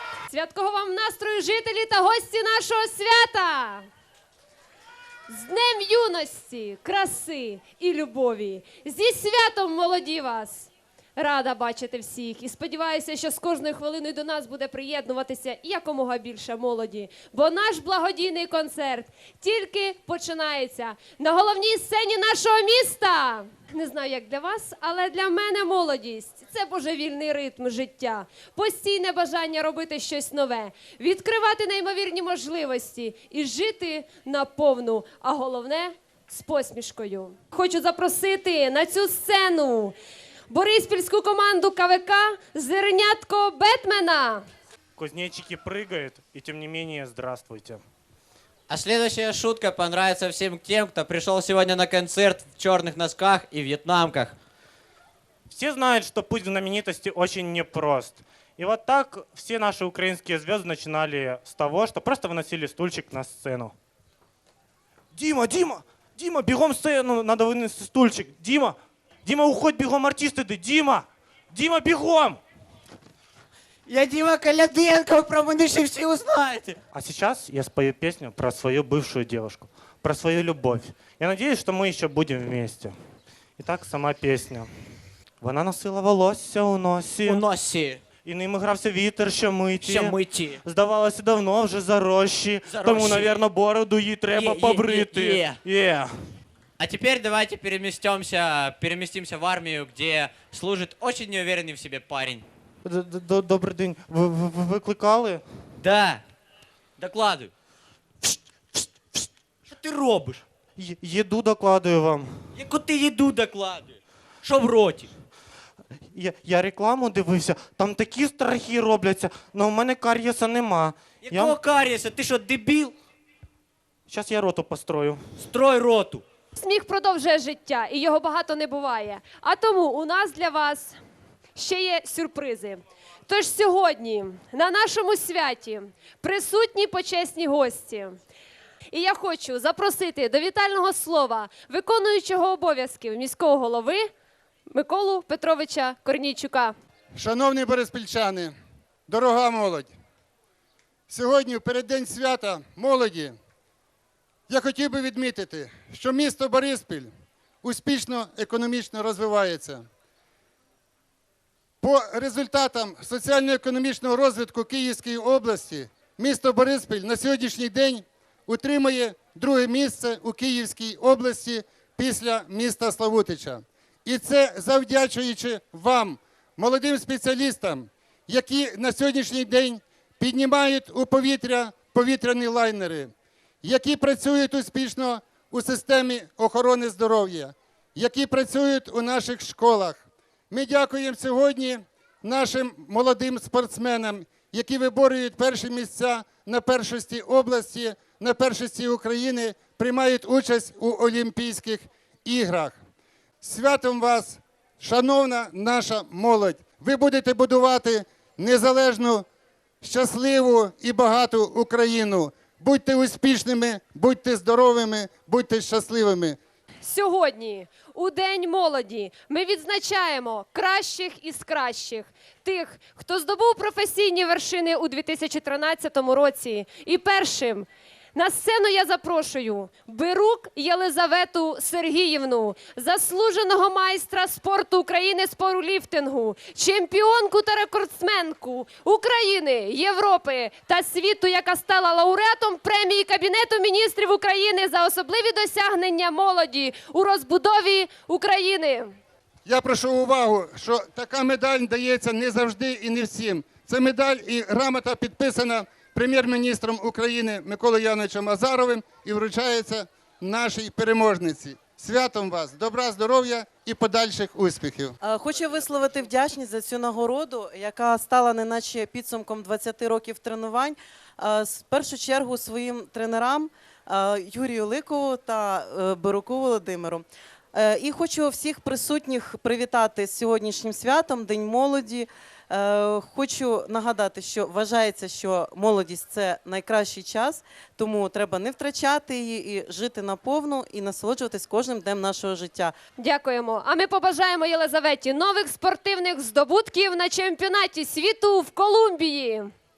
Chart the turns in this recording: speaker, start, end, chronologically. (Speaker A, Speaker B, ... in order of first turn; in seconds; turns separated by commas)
Speaker A: 0.3-3.9, Speaker A: 5.3-39.9, Speaker A: 40.5-44.4, Speaker B: 45.0-47.8, Speaker C: 48.7-54.4, Speaker B: 55.5-63.7, Speaker B: 65.1-72.4, Speaker B: 76.9-82.9, Speaker B: 83.6-84.7, Speaker B: 85.4-87.5, Speaker C: 87.2-88.0, Speaker B: 88.1-96.3, Speaker C: 89.8-90.5, Speaker C: 92.7-93.3, Speaker C: 94.3-95.6, Speaker C: 96.8-102.4, Speaker B: 102.8-105.4, Speaker C: 105.8-106.2, Speaker C: 107.0-107.5, Speaker B: 110.8-112.5, Speaker B: 116.1-121.6, Speaker B: 124.1-125.4, Speaker A: 126.5-130.9, Speaker A: 131.5-138.2, Speaker A: 138.9-144.1, Speaker A: 144.7-146.7, Speaker D: 147.2-148.5, Speaker D: 149.1-149.9, Speaker D: 151.1-153.3, Speaker D: 154.5-157.1, Speaker D: 157.6-159.8, Speaker D: 161.8-183.1, Speaker D: 183.6-202.8, Speaker D: 203.4-209.2, Speaker D: 209.8-216.4, Speaker A: 216.8-248.9, Speaker D: 249.4-265.0, Speaker E: 265.0-292.8, Speaker A: 293.0-299.5